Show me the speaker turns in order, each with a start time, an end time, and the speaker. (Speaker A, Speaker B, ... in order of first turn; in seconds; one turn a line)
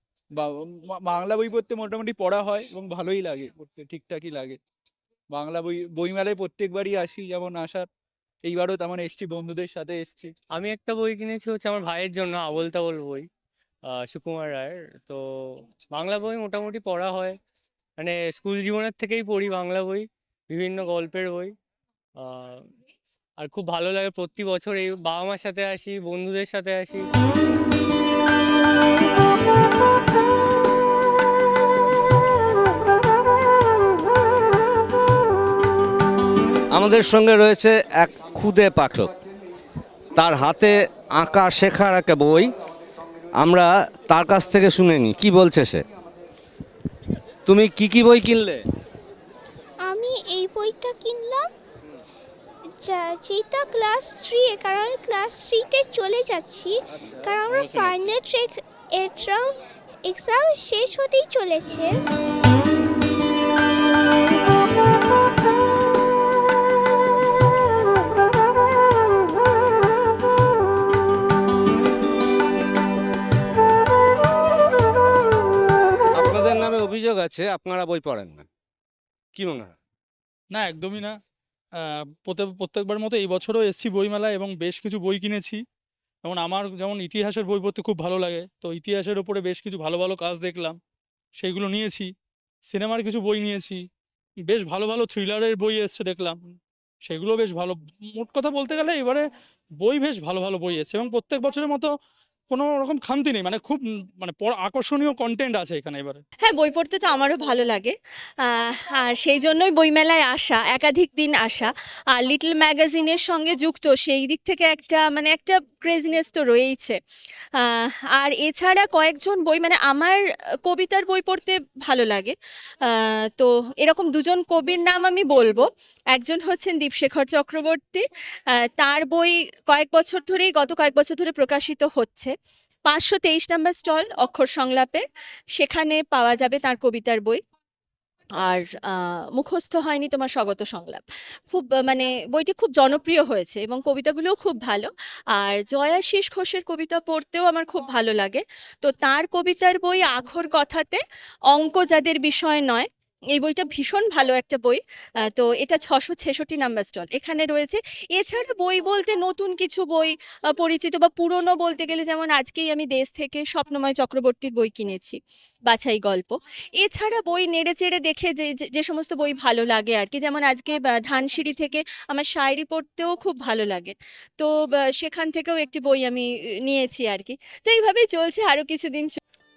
Speaker A: 0.3-4.6
Speaker A: 5.3-7.9
Speaker A: 8.4-10.3
Speaker B: 10.5-13.3
Speaker B: 13.8-17.4
Speaker B: 18.0-21.5
Speaker B: 22.1-22.7
Speaker B: 23.4-27.1
Speaker C: 36.7-39.1
Speaker C: 40.2-42.5
Speaker C: 43.4-45.8
Speaker C: 47.5-48.6
Speaker D: 49.8-51.5
Speaker D: 52.8-59.5
Speaker D: 60.0-61.9
Speaker C: 76.2-78.5
Speaker C: 79.3-79.8
Speaker E: 80.5-81.2
Speaker E: 81.7-85.6
Speaker E: 86.2-90.8
Speaker E: 91.3-92.1
Speaker E: 92.7-93.8
Speaker E: 94.4-96.4
Speaker E: 97.0-99.3
Speaker E: 99.8-101.9
Speaker E: 102.5-106.2
Speaker F: 106.4-117.0
Speaker F: 117.6-128.0
Speaker F: 128.7-132.3
Speaker F: 132.8-137.4
Speaker F: 138.4-179.2